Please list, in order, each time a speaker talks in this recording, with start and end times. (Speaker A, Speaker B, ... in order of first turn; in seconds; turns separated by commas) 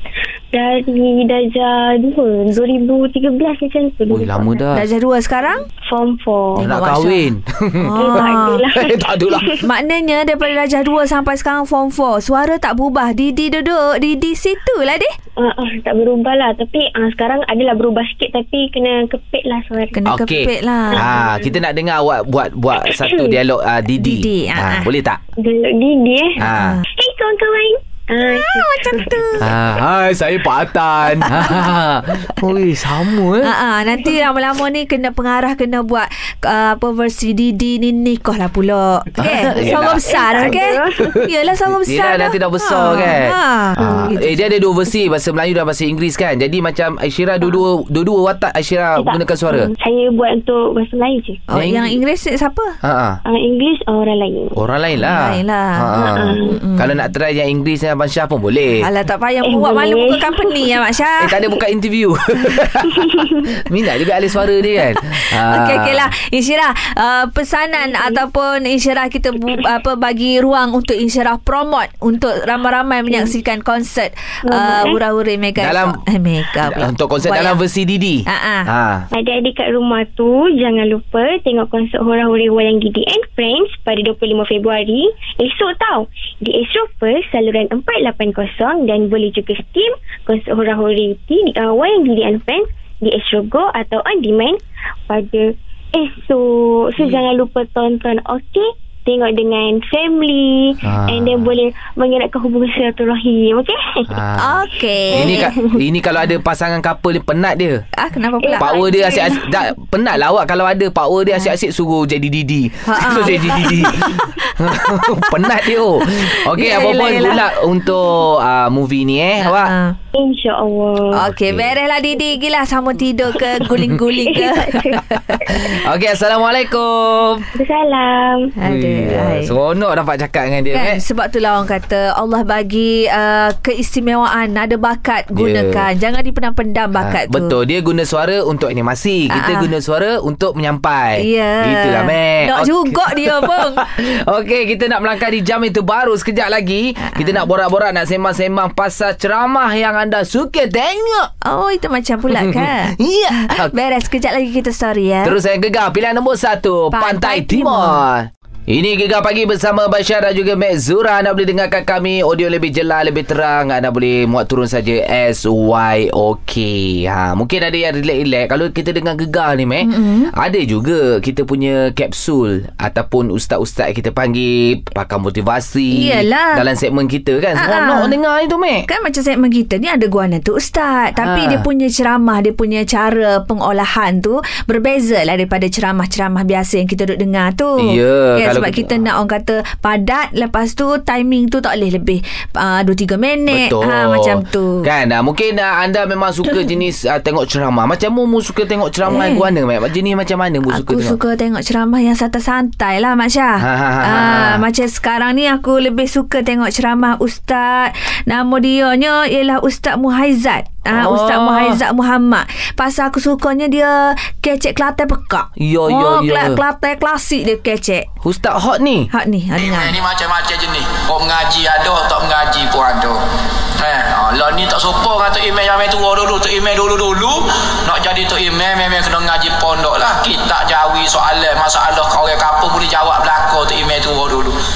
Speaker A: 0.5-4.7, Speaker B: 4.1-4.9, Speaker C: 4.7-5.6, Speaker A: 5.9-6.7, Speaker C: 6.6-7.3, Speaker B: 6.6-8.2, Speaker C: 7.8-8.6, Speaker A: 8.0-9.6, Speaker B: 8.7-9.5, Speaker C: 9.6-15.1, Speaker A: 15.4-19.9, Speaker C: 19.9-21.0, Speaker B: 20.1-25.2, Speaker A: 20.9-21.6, Speaker A: 22.8-23.4, Speaker C: 23.9-24.9, Speaker A: 25.4-26.4, Speaker B: 26.4-26.8, Speaker C: 26.5-26.8, Speaker A: 26.9-29.1, Speaker C: 28.3-29.4, Speaker B: 29.4-33.5, Speaker C: 31.2-31.6, Speaker C: 33.4-44.5, Speaker B: 39.2-41.1, Speaker A: 39.5-41.1, Speaker B: 41.8-49.7, Speaker A: 49.0-51.4, Speaker C: 51.5-52.8, Speaker B: 51.5-51.9, Speaker B: 52.8-53.2, Speaker A: 53.3-54.6, Speaker B: 54.5-58.9, Speaker C: 55.0-55.9, Speaker A: 55.9-56.6, Speaker C: 56.5-57.0, Speaker C: 58.8-61.3, Speaker A: 59.4-60.7, Speaker B: 61.2-66.1, Speaker A: 63.0-63.4, Speaker C: 65.4-77.6, Speaker A: 67.8-68.2, Speaker A: 74.5-75.0, Speaker B: 75.6-76.0, Speaker B: 76.6-79.1, Speaker C: 78.3-78.7, Speaker A: 79.1-104.1, Speaker B: 100.8-101.5, Speaker B: 104.1-104.6, Speaker C: 104.4-105.5, Speaker A: 105.1-105.8, Speaker B: 105.1-107.8, Speaker C: 108.0-108.7, Speaker A: 108.4-109.6, Speaker B: 108.6-119.7, Speaker C: 112.9-117.4, Speaker C: 119.4-120.0, Speaker A: 120.1-121.2, Speaker C: 121.1-125.4, Speaker B: 121.2-121.7, Speaker A: 123.4-123.6, Speaker A: 124.2-125.8, Speaker B: 125.5-127.5, Speaker A: 127.5-128.4, Speaker C: 128.6-129.5, Speaker B: 128.7-131.0, Speaker C: 130.7-137.5, Speaker B: 135.3-135.8, Speaker B: 137.0-151.3, Speaker C: 139.3-139.7, Speaker C: 141.2-143.8, Speaker C: 147.0-147.4, Speaker C: 151.4-155.3, Speaker B: 152.3-153.7, Speaker B: 155.2-178.9, Speaker C: 156.9-158.0, Speaker C: 169.8-170.3, Speaker C: 175.9-176.6, Speaker C: 177.6-178.2, Speaker C: 178.9-194.8, Speaker B: 181.2-181.7, Speaker B: 187.8-189.0, Speaker B: 193.5-201.2, Speaker C: 199.1-199.5, Speaker C: 200.7-218.1, Speaker B: 203.6-204.6, Speaker B: 210.9-211.8, Speaker B: 215.6-216.6, Speaker B: 218.2-219.1, Speaker C: 219.1-220.0, Speaker D: 219.6-223.2, Speaker D: 223.8-234.6